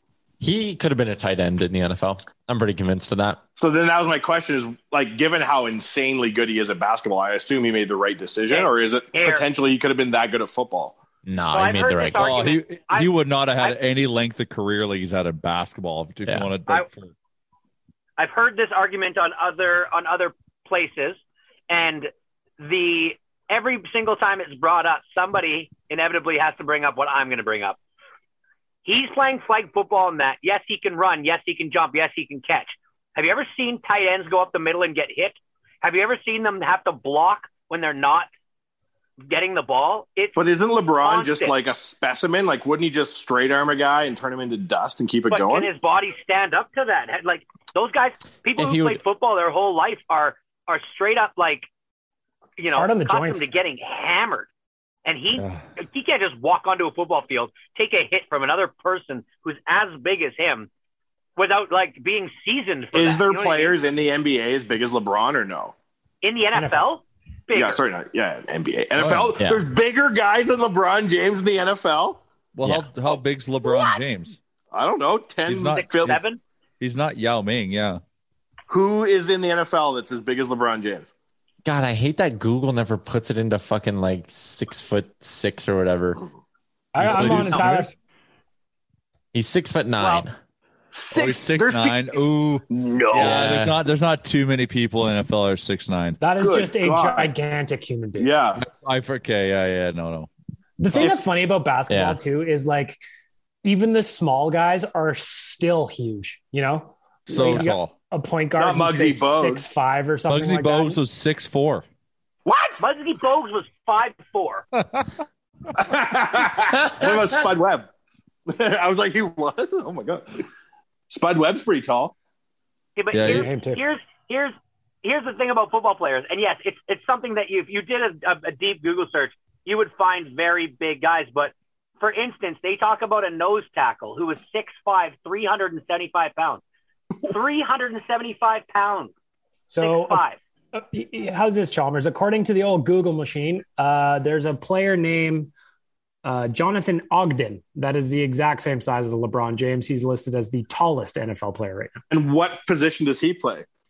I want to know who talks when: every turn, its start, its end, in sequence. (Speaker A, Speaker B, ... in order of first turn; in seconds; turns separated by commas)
Speaker A: 0.4-3.4, Speaker B: 3.6-11.0, Speaker C: 8.5-9.5, Speaker A: 11.3-12.4, Speaker C: 11.5-13.8, Speaker D: 12.2-17.1, Speaker C: 18.2-27.8, Speaker C: 28.9-38.3, Speaker C: 39.3-40.4, Speaker B: 40.4-45.7, Speaker C: 41.0-41.6, Speaker C: 45.3-51.7, Speaker A: 48.5-49.0, Speaker C: 52.6-54.5, Speaker E: 52.7-53.5, Speaker C: 55.0-60.7, Speaker D: 55.4-55.6, Speaker C: 61.4-63.8, Speaker B: 62.9-65.7, Speaker C: 66.2-67.8, Speaker E: 66.5-66.9, Speaker B: 67.5-72.2, Speaker D: 69.0-69.3, Speaker A: 69.4-69.6, Speaker D: 72.5-74.4, Speaker B: 74.7-76.2, Speaker D: 75.5-76.2, Speaker C: 75.9-76.4, Speaker D: 76.8-78.0, Speaker B: 78.7-81.1, Speaker A: 81.6-86.2, Speaker E: 86.9-87.9, Speaker A: 87.0-87.7, Speaker D: 87.0-87.8, Speaker A: 89.3-90.3, Speaker B: 90.9-92.0, Speaker D: 91.1-96.2, Speaker B: 92.7-93.6, Speaker A: 93.2-93.8, Speaker E: 96.2-98.3, Speaker B: 96.4-97.3, Speaker B: 98.2-98.6, Speaker D: 98.6-100.3, Speaker E: 100.8-103.0, Speaker B: 101.0-101.2, Speaker A: 101.9-102.2, Speaker E: 103.6-111.0, Speaker D: 107.3-107.9, Speaker B: 108.6-109.6, Speaker D: 110.3-111.8, Speaker B: 112.5-112.8, Speaker C: 112.8-114.7, Speaker B: 115.8-117.9, Speaker B: 118.5-120.4, Speaker B: 121.1-122.1, Speaker C: 123.0-136.6, Speaker D: 123.1-123.5, Speaker E: 123.2-123.8, Speaker C: 137.2-139.1, Speaker E: 139.7-140.2, Speaker C: 139.8-140.4, Speaker E: 140.7-145.5, Speaker E: 146.2-152.0, Speaker B: 152.1-153.6